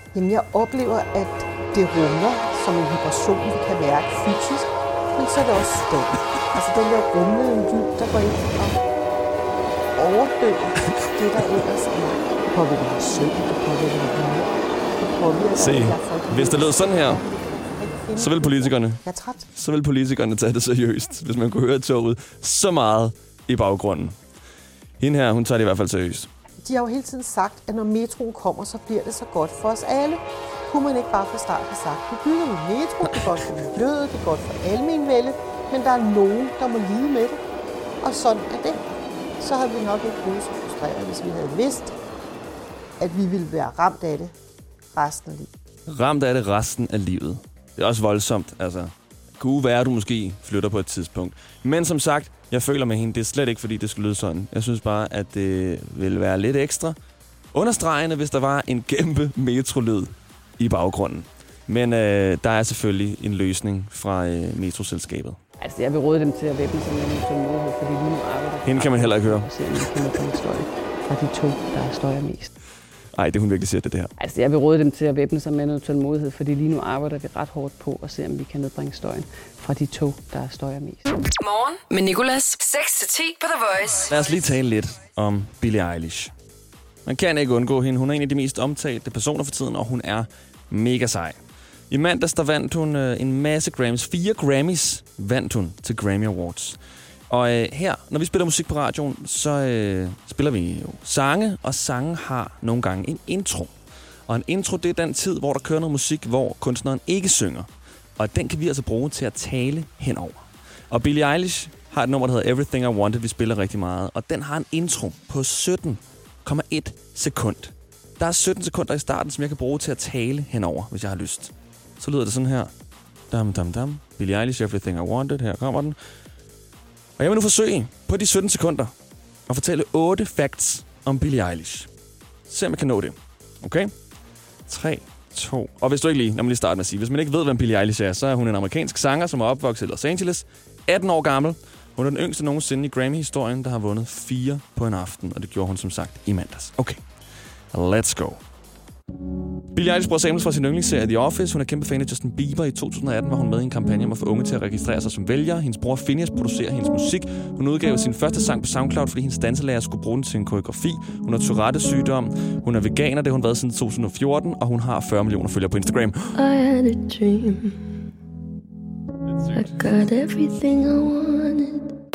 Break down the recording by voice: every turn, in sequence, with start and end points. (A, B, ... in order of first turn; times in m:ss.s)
0:00.1-0:08.8 A
0:10.0-0:19.5 A
0:15.6-0:17.2 B
0:18.2-0:19.0 B
0:19.5-0:24.2 B
0:25.0-0:26.3 B
0:26.6-0:37.4 A
0:38.0-0:41.9 A
0:43.0-0:44.4 A
0:44.9-0:45.5 A
0:45.9-0:57.0 B
0:57.5-1:05.4 B
1:05.6-1:12.5 C
1:08.6-1:09.5 B
1:13.2-1:14.1 B
1:14.2-1:21.1 C
1:21.4-1:24.2 D
1:24.1-1:26.3 B
1:27.1-1:31.4 B
1:31.9-1:43.7 B
1:44.3-2:02.7 B
2:03.3-2:06.0 B
2:07.2-2:08.9 B
2:09.5-2:11.9 B
2:12.5-2:13.9 B
2:14.7-2:27.0 B
2:27.7-2:28.4 B
2:29.7-2:46.4 B
2:46.4-2:47.9 E
2:49.5-2:51.8 E